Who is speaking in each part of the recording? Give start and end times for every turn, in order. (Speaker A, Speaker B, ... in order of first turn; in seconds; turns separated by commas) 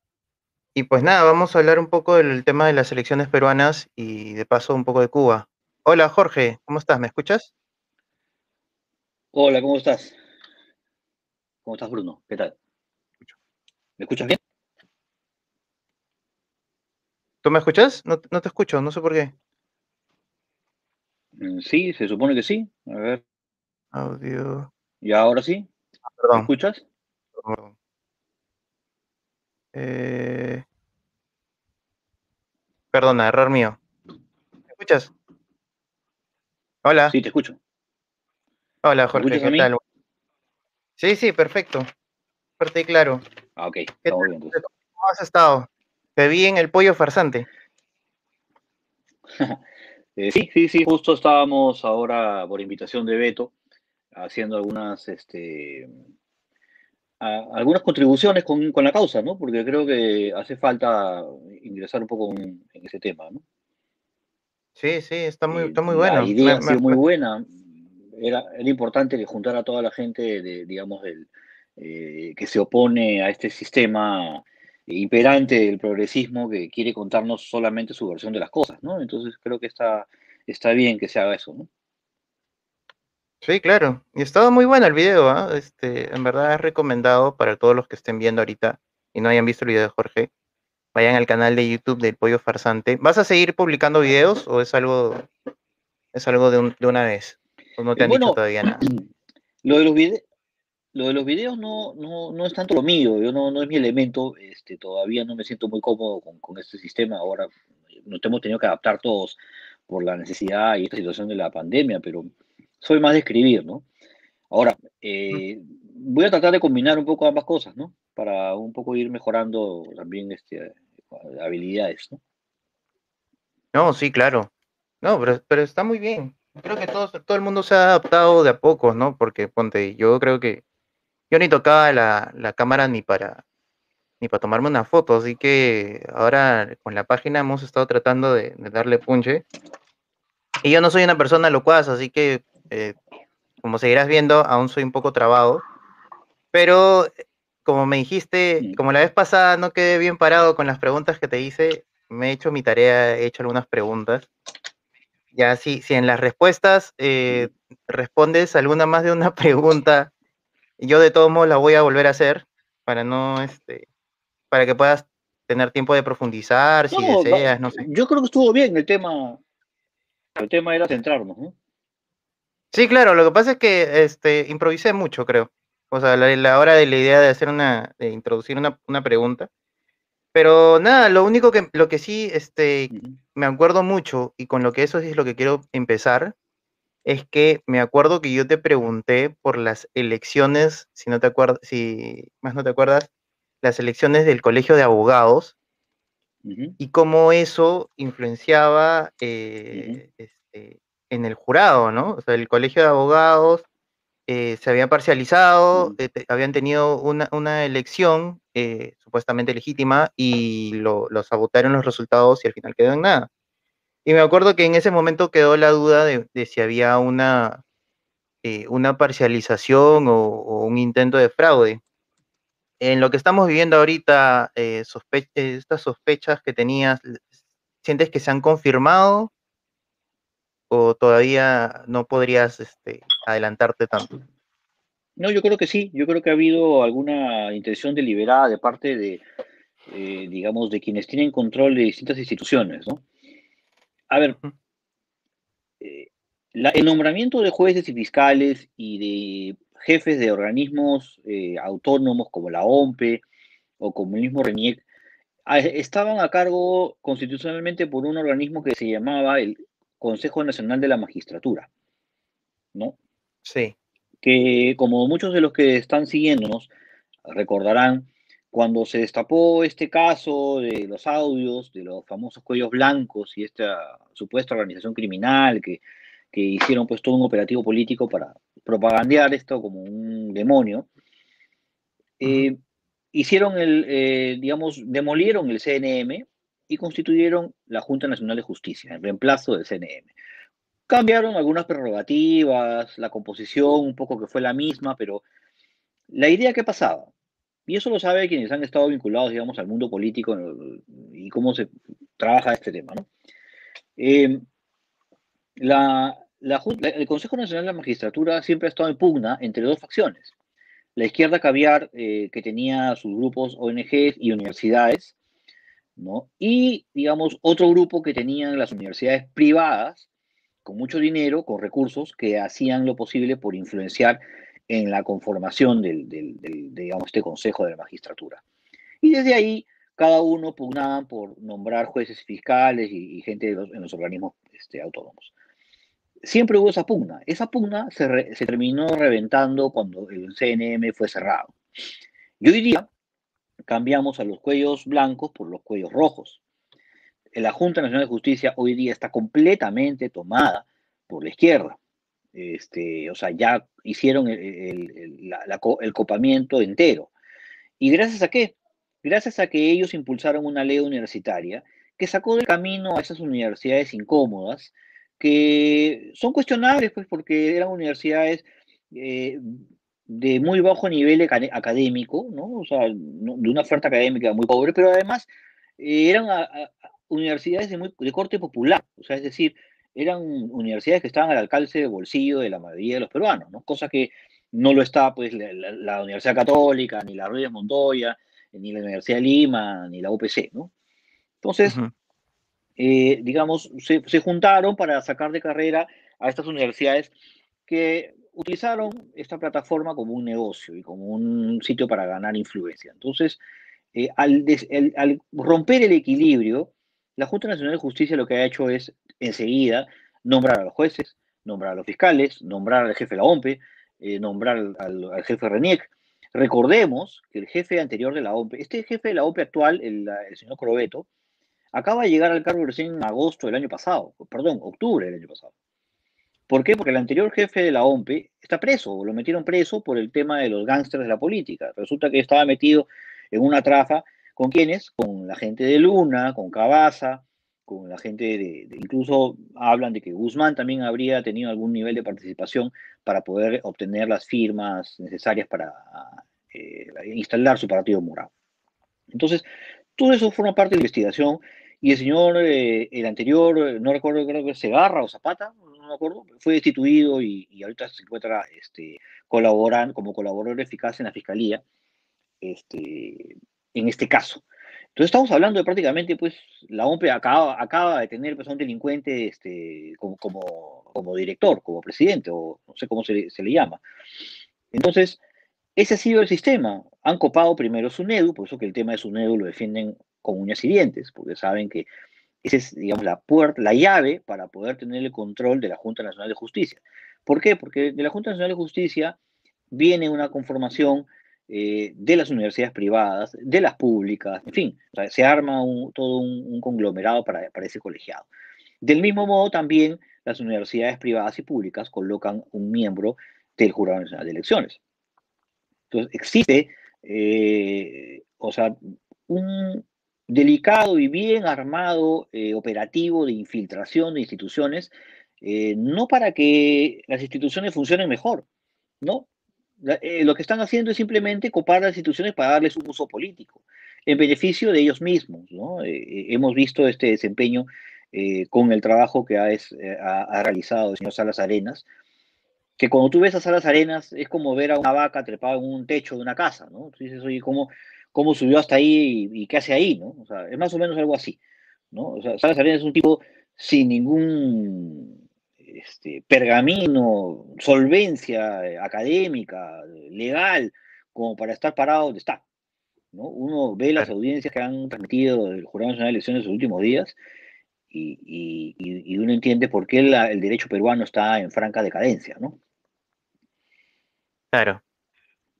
Speaker A: 0.7-7.5, Speaker B: 9.3-10.2, Speaker B: 11.7-12.5, Speaker B: 14.0-14.4, Speaker A: 17.4-19.3, Speaker B: 21.4-23.2, Speaker A: 23.9-24.7, Speaker B: 25.0-25.7, Speaker A: 26.2-26.5, Speaker B: 26.3-26.8, Speaker A: 27.4-27.7, Speaker A: 29.7-30.6, Speaker A: 32.9-33.8, Speaker A: 34.7-35.1, Speaker A: 36.8-37.1, Speaker B: 37.1-37.6, Speaker A: 38.8-39.8, Speaker B: 39.1-39.7, Speaker A: 41.0-41.9, Speaker A: 42.6-43.2, Speaker B: 43.6-44.6, Speaker A: 44.0-47.5, Speaker B: 49.3-49.6, Speaker B: 50.2-53.5, Speaker B: 54.1-55.9, Speaker B: 57.2-63.4, Speaker A: 64.8-67.0, Speaker B: 65.5-67.6, Speaker B: 68.1-81.7, Speaker A: 83.4-90.3, Speaker A: 90.9-95.3, Speaker A: 96.1-98.9, Speaker B: 98.0-99.0, Speaker B: 99.6-100.2, Speaker B: 100.9-107.5, Speaker B: 108.0-113.8, Speaker B: 114.5-122.2, Speaker A: 123.7-124.5, Speaker A: 125.0-130.6, Speaker A: 131.3-133.4, Speaker A: 134.2-139.4, Speaker A: 140.6-142.9, Speaker A: 143.6-145.6, Speaker A: 146.5-147.1, Speaker A: 147.6-154.3, Speaker A: 155.3-160.1, Speaker A: 160.8-163.9, Speaker A: 164.5-167.9, Speaker B: 166.9-169.4, Speaker B: 170.3-171.5, Speaker A: 172.7-179.5, Speaker A: 180.3-186.3, Speaker B: 182.9-183.2, Speaker A: 187.0-193.1, Speaker A: 193.6-195.5, Speaker B: 196.4-196.8, Speaker A: 196.8-203.7, Speaker B: 199.7-200.0, Speaker A: 204.3-213.3, Speaker A: 214.0-217.6, Speaker A: 218.4-221.8, Speaker A: 222.8-227.2, Speaker A: 227.8-229.3, Speaker A: 230.7-234.2, Speaker B: 235.2-239.2, Speaker B: 239.9-243.0, Speaker B: 244.1-244.4, Speaker B: 245.8-253.2, Speaker B: 253.8-254.8, Speaker B: 255.5-261.7, Speaker A: 263.4-263.7, Speaker B: 264.2-266.7, Speaker B: 267.2-280.9, Speaker B: 282.2-282.6, Speaker B: 283.1-290.1, Speaker B: 290.9-295.2, Speaker B: 296.1-297.1, Speaker B: 297.7-303.1, Speaker B: 304.0-304.4, Speaker B: 305.6-310.3, Speaker B: 310.9-315.1, Speaker B: 316.0-320.1, Speaker B: 320.6-328.4, Speaker B: 329.0-335.3, Speaker B: 336.2-341.5, Speaker B: 342.4-342.9, Speaker B: 343.7-346.4, Speaker B: 347.3-351.8, Speaker B: 352.3-357.1, Speaker B: 357.8-390.7, Speaker B: 391.4-391.8, Speaker A: 391.6-391.9, Speaker B: 392.8-397.1, Speaker B: 397.7-403.4, Speaker B: 403.9-421.1, Speaker B: 421.7-425.5, Speaker B: 426.5-448.3, Speaker B: 449.1-449.4, Speaker B: 450.0-461.6, Speaker B: 462.4-464.4, Speaker B: 464.9-473.8, Speaker B: 474.7-475.2, Speaker B: 475.8-481.9, Speaker B: 482.4-489.2, Speaker B: 489.7-498.3, Speaker B: 498.8-504.8, Speaker B: 505.9-508.8, Speaker B: 509.3-518.5, Speaker B: 519.8-531.8, Speaker B: 532.8-541.4, Speaker B: 541.9-552.4, Speaker B: 553.1-557.1, Speaker B: 557.9-562.6, Speaker A: 564.5-564.8